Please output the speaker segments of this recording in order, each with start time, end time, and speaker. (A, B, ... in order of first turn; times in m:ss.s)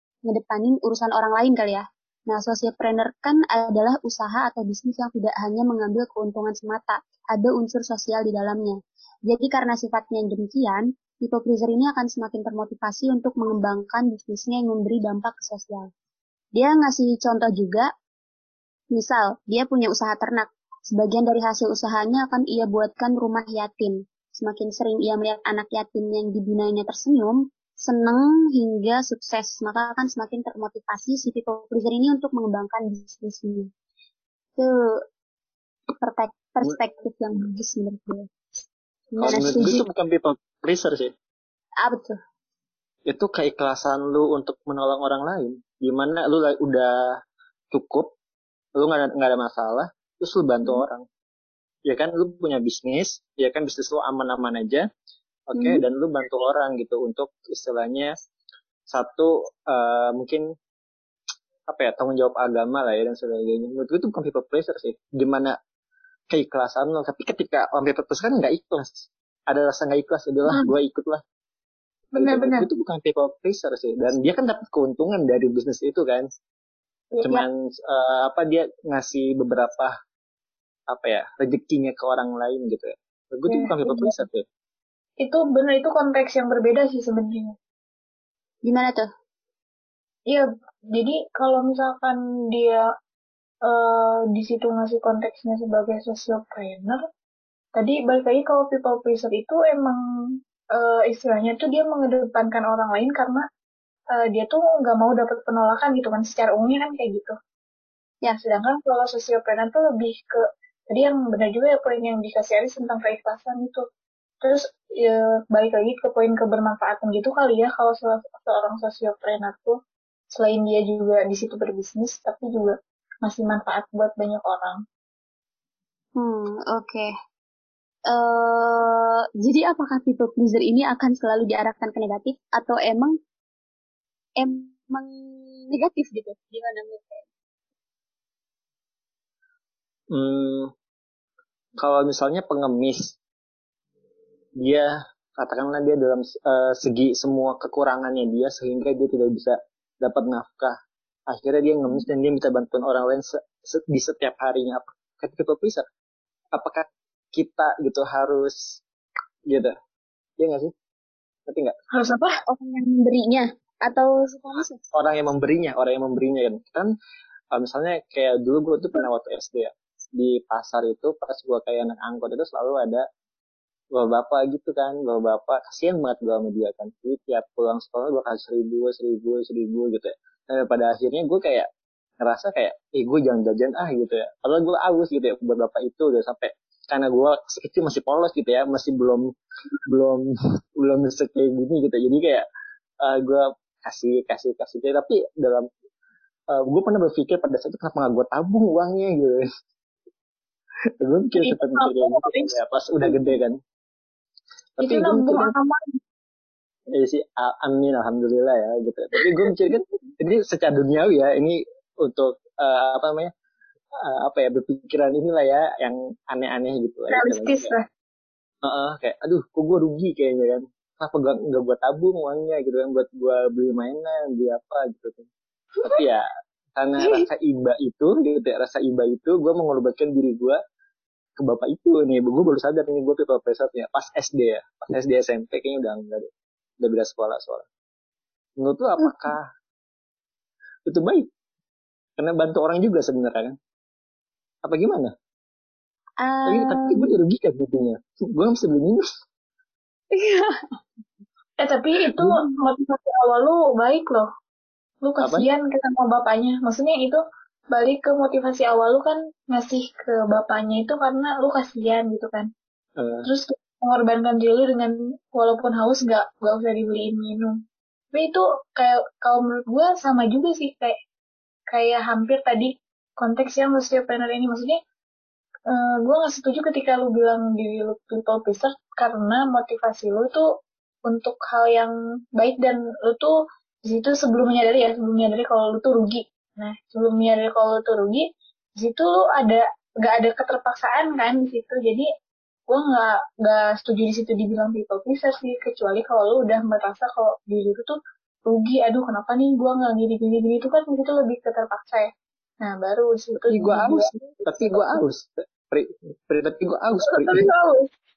0:00.3-0:15.9 A
0:16.5-0:17.9 A
0:18.9-0:33.7 A
0:34.6-0:35.0 A
0:36.0-0:38.3 A
0:39.1-0:39.8 A
0:39.2-0:41.1 B
0:41.8-0:42.2 A
0:43.0-0:47.2 B
0:47.7-0:48.1 B
0:48.8-0:51.0 B
0:51.8-0:54.9 B
0:55.5-0:58.1 B
0:58.9-1:00.5 B
1:01.7-1:05.6 B
1:06.3-1:11.2 B
1:10.5-1:10.7 C
1:12.1-1:12.7 C
1:12.2-1:16.3 B
1:17.2-1:19.9 B
1:20.9-1:24.4 B
1:23.5-1:24.2 C
1:25.2-1:27.6 C
1:28.6-1:29.1 A
1:30.3-1:32.8 C
1:33.6-1:37.0 C
1:37.7-1:43.4 C
1:44.1-1:47.4 C
1:48.3-1:53.8 C
1:54.4-1:59.8 C
2:00.3-2:04.8 C
2:06.2-2:07.1 A
2:08.1-2:13.1 A
2:14.4-2:15.1 A
2:15.7-2:17.2 A
2:20.1-2:20.7 B
2:21.8-2:23.2 B
2:24.6-2:30.8 B
2:31.3-2:35.8 B
2:36.5-2:38.8 B
2:39.5-2:39.7 B
2:40.4-2:40.7 B
2:41.5-2:41.8 B
2:41.9-2:42.4 C
2:42.5-2:44.8 A
2:44.9-2:46.9 B
2:47.5-2:53.0 B
2:53.9-3:01.7 B
3:02.2-3:09.3 B
3:09.9-3:12.4 B
3:13.0-3:15.7 B
3:16.5-3:19.4 B
3:21.0-3:23.6 B
3:21.4-3:23.3 C
3:24.8-3:25.5 B
3:24.8-3:26.0 C
3:26.9-3:33.3 B
3:29.2-3:29.7 C
3:34.0-3:37.7 B
3:37.1-3:37.8 C
3:38.6-3:45.3 B
3:45.8-3:50.6 B
3:51.4-3:56.3 B
3:56.8-3:57.6 B
3:58.6-3:59.5 B
4:00.8-4:01.3 B
4:02.2-4:03.6 B
4:04.6-4:05.1 B
4:06.2-4:07.1 A
4:06.4-4:09.0 B
4:10.1-4:10.8 A
4:11.6-4:14.3 C
4:15.0-4:17.2 C
4:15.2-4:15.5 B
4:17.7-4:22.5 C
4:23.0-4:23.3 B
4:23.2-4:27.6 C
4:28.1-4:31.0 C
4:31.7-4:34.8 C
4:35.7-4:40.5 C
4:41.1-4:43.3 C
4:43.8-4:48.3 C
4:48.8-4:52.1 C
4:52.7-5:04.9 C
5:03.5-5:07.4 B
5:07.0-5:07.9 C